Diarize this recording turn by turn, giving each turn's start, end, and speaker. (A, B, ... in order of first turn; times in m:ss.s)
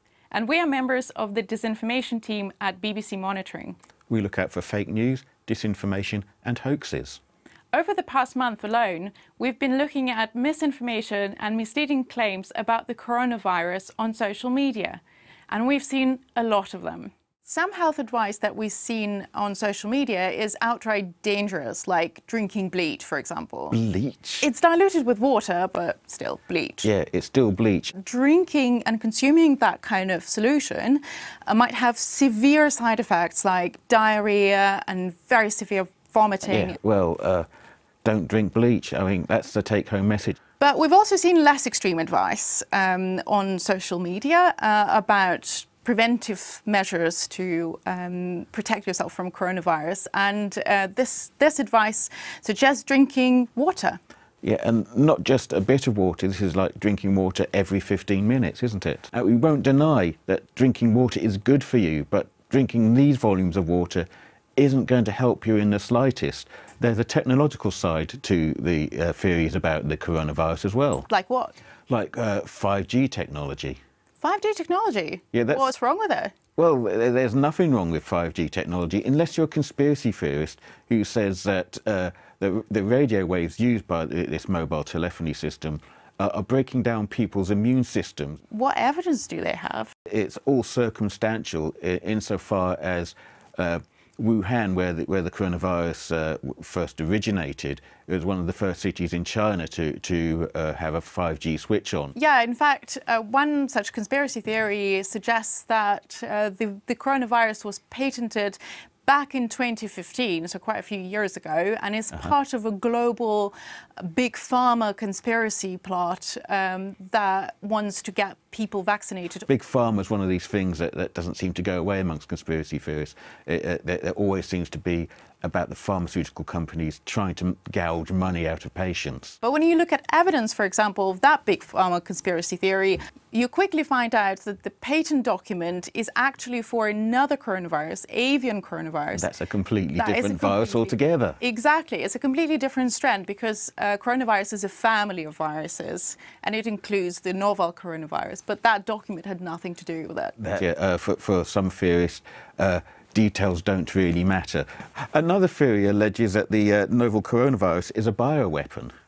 0:00.3-0:03.8 A
0:04.1-0:07.2 B
0:07.7-0:23.8 A
0:23.7-0:24.5 B
0:24.4-0:26.9 A
0:26.8-0:27.9 B
0:27.9-0:36.8 A
0:36.5-0:37.5 B
0:38.0-0:40.4 B
0:40.6-0:54.0 A
0:54.4-1:11.1 B
1:11.1-1:11.5 A
1:11.9-1:13.8 B
1:14.2-1:16.3 A
1:15.3-1:15.7 B
1:16.6-1:28.4 B
1:28.5-1:29.9 A
1:30.1-1:42.1 B
1:42.1-1:59.5 A
1:59.5-2:09.4 B
2:09.4-2:19.3 A
2:19.1-2:21.4 B
2:19.9-2:30.4 A
2:30.4-2:38.9 B